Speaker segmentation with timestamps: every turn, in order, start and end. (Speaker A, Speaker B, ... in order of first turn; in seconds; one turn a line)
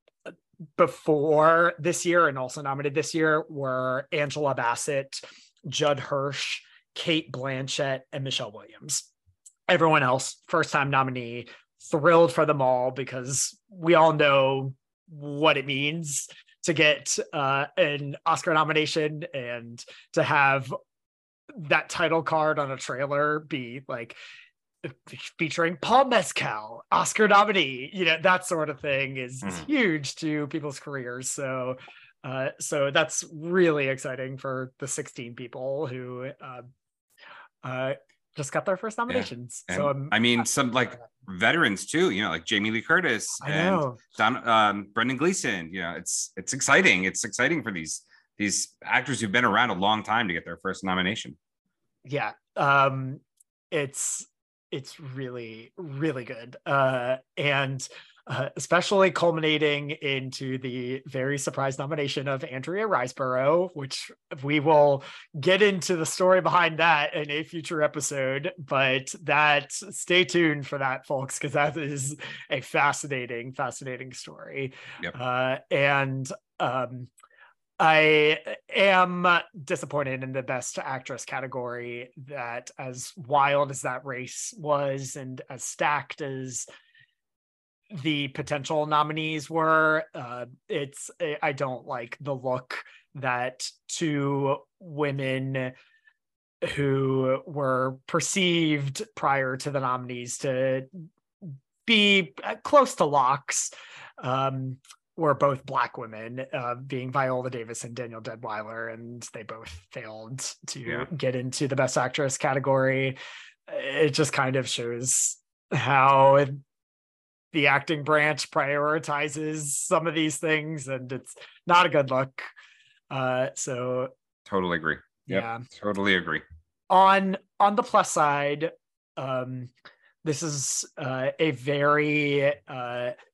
Speaker A: 0.3-9.1
Speaker A: 9.7-20.7
Speaker A: 21.5-24.2
Speaker A: 24.8-36.6
Speaker B: 29.4-29.7
Speaker A: 37.6-40.2
Speaker B: 39.1-51.4
Speaker A: 43.4-44.0
Speaker A: 52.0-77.1
Speaker A: 77.8-86.7
Speaker A: 87.9-95.7
Speaker A: 96.6-116.6
Speaker A: 117.5-122.5
Speaker A: 123.1-124.1
Speaker B: 124.5-126.4
Speaker A: 125.3-125.7
Speaker A: 126.9-129.7
Speaker A: 130.2-133.1